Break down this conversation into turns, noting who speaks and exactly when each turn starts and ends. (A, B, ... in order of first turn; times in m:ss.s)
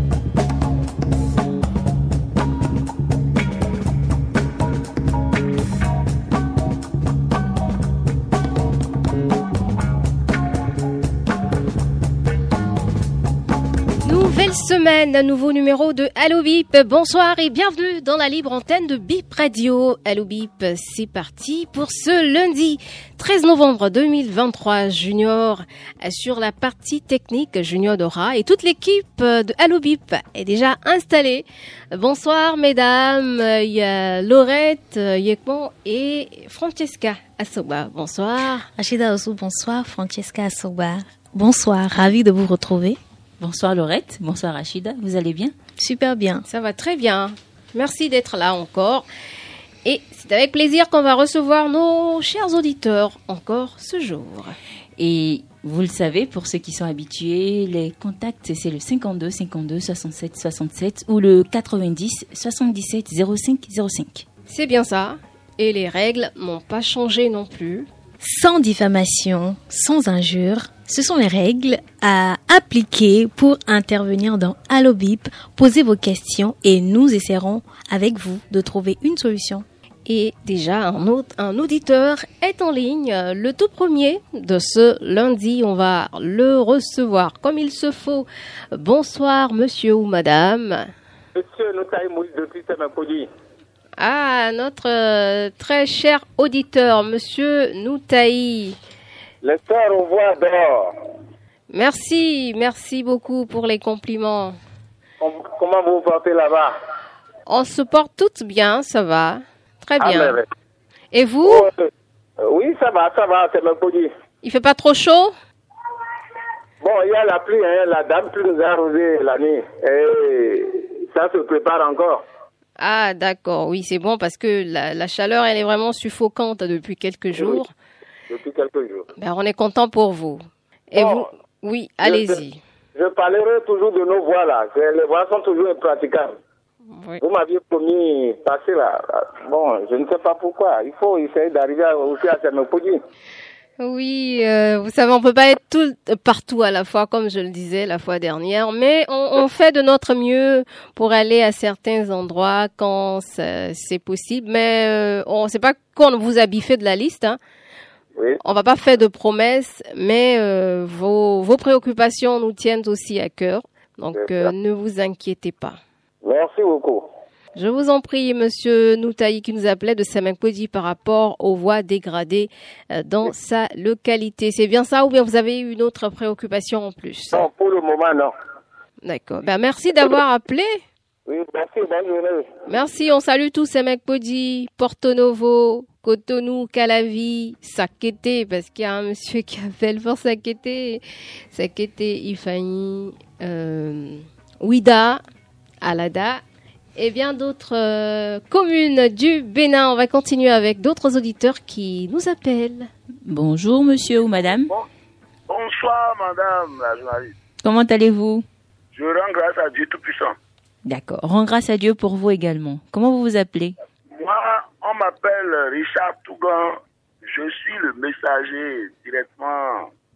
0:14.0-0:38.7 A
0:38.8-0:43.0 B
0:43.4-0:45.5 C
0:45.8-0:46.4 B
0:46.5-0:49.1 A
0:49.8-0:54.6 A
0:55.0-1:04.2 C
1:04.5-1:07.9 A
1:08.2-1:19.6 B
1:20.1-1:30.9 A
1:31.4-1:33.3 D
1:34.0-1:38.8 A
1:39.4-1:40.9 D
1:41.7-1:44.6 A
1:45.2-1:46.8 D
1:47.5-1:50.4 A
1:50.0-1:50.5 D
1:51.1-1:51.7 A
1:51.4-1:51.8 D
1:52.4-1:54.1 D
1:54.4-1:55.4 A
1:56.8-2:02.2 D
2:02.8-2:07.7 A
2:07.3-2:07.6 D
2:08.3-2:09.1 D
2:09.2-2:12.6 A
2:11.0-2:11.3 D
2:12.0-2:12.4 D
2:13.0-2:16.4 D
2:16.9-2:17.2 A
2:17.2-2:23.0 D
2:23.8-2:37.4 A
2:38.4-2:45.8 A
2:44.1-2:44.5 D
2:46.2-2:47.1 D
2:47.6-2:57.5 A
2:57.3-2:58.3 D
2:59.0-3:00.8 A
3:01.3-3:02.5 D
3:02.7-3:11.0 A
3:11.5-3:15.2 A
3:15.8-3:16.4 A
3:17.0-3:22.9 A
3:23.3-3:24.7 C
3:25.5-3:27.4 E
3:27.6-3:28.4 C
3:28.9-3:30.4 E
3:30.9-3:33.8 C
3:34.2-3:39.9 E